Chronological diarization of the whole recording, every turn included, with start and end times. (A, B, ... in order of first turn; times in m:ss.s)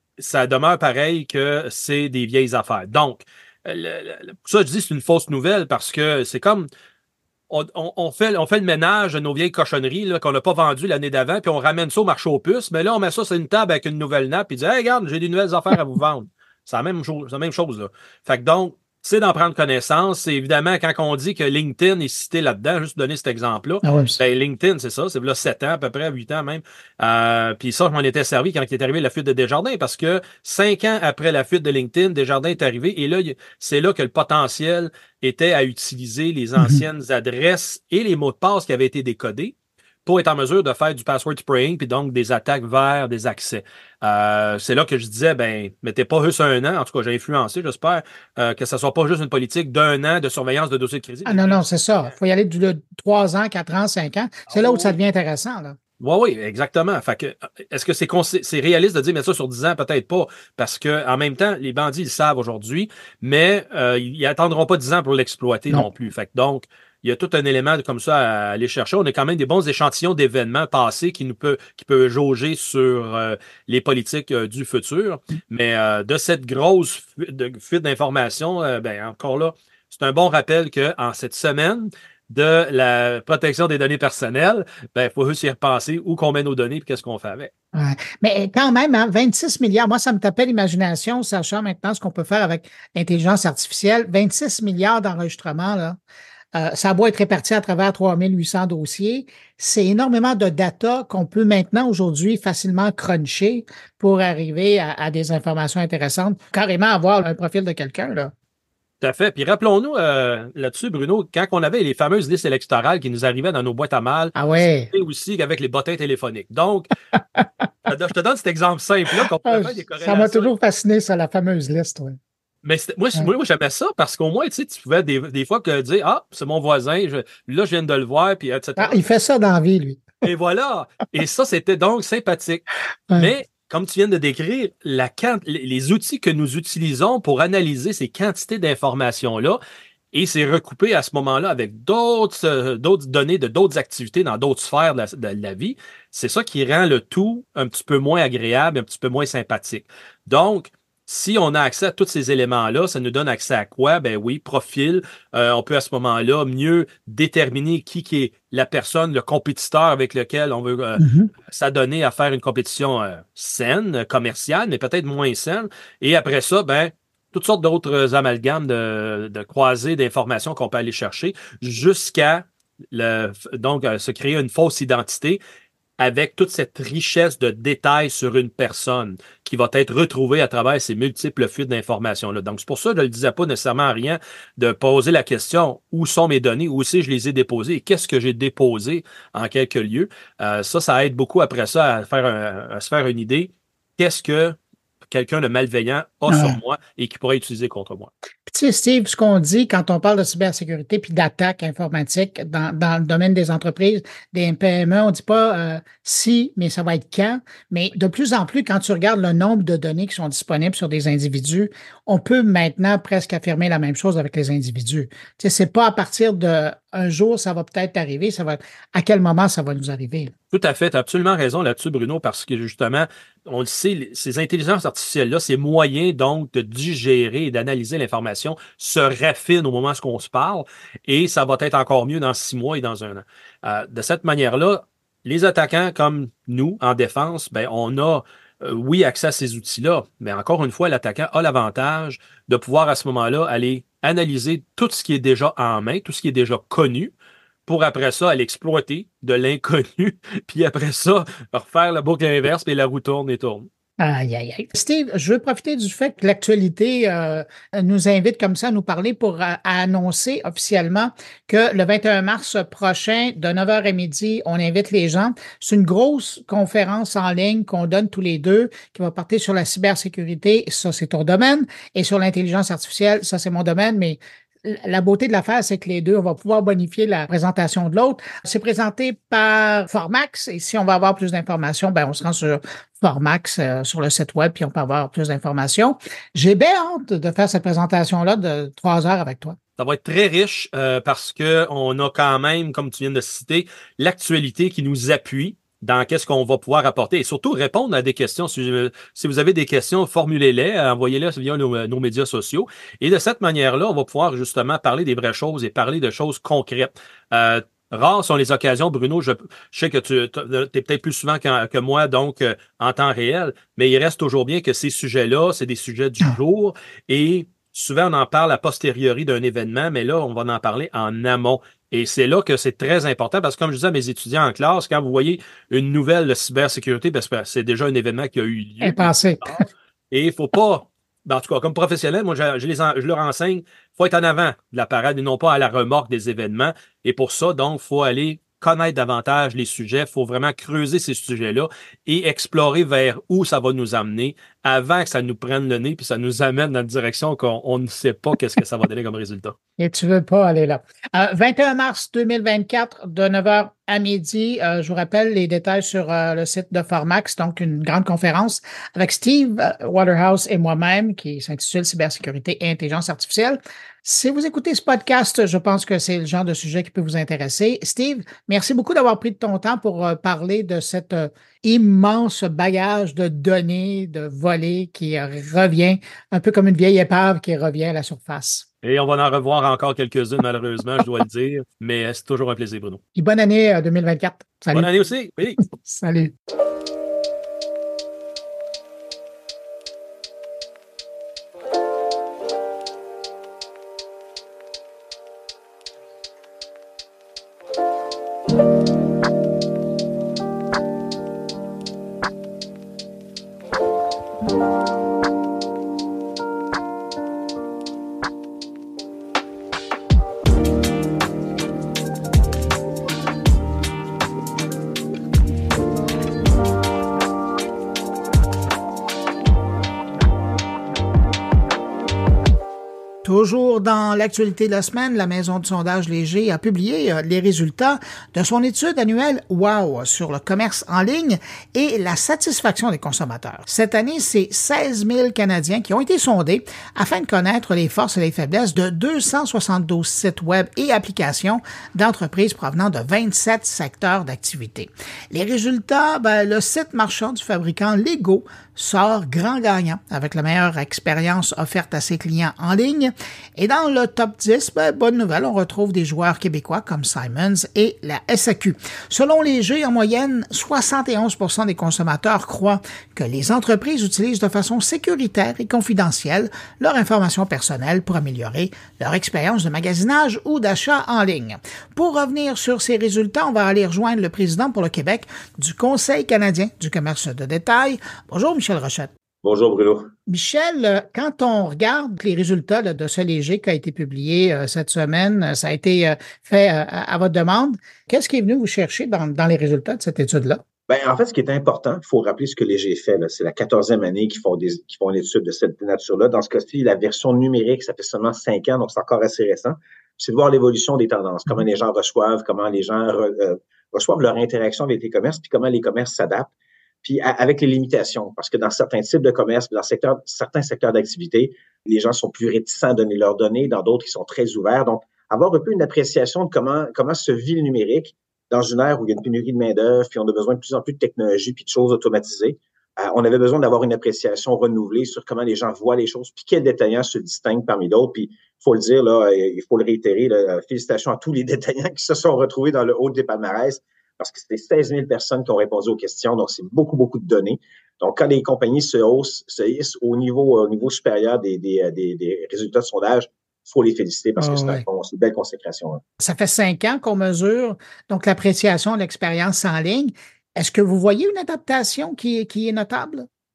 0:00.2-0:06.7 A
0:07.5-0:39.5 A
0:23.8-0:24.2 B
0:36.6-0:36.8 B
0:40.0-0:51.6 A
0:51.2-0:55.8 B
0:54.5-0:55.0 A
0:56.0-1:27.5 A
1:27.7-1:36.0 B
1:36.5-1:48.3 B
1:49.0-1:54.3 A
1:54.4-1:54.9 B
1:54.9-1:56.9 A
1:57.9-2:00.5 A
1:59.2-2:02.2 B
2:02.6-2:09.0 A
2:08.8-2:10.2 B
2:10.2-2:19.6 A
2:20.1-2:55.4 A
2:41.0-2:41.3 B
2:56.0-3:14.6 A
3:15.1-3:18.1 A
3:16.3-3:16.6 B
3:18.5-3:40.3 B
3:40.5-4:07.1 A
4:07.6-4:13.7 A
4:14.0-4:49.6 B
4:49.8-5:49.5 A
5:28.8-5:29.6 B
5:49.8-6:18.6 B
6:18.8-6:23.0 A
6:23.1-6:24.9 B
6:24.7-6:25.6 A
6:25.6-6:26.3 B
7:03.2-7:59.1 B
7:59.4-8:00.1 C
8:00.3-8:10.6 B
8:10.9-8:26.5 C
8:27.0-9:06.0 C
9:04.4-9:04.8 B
9:06.2-9:13.3 B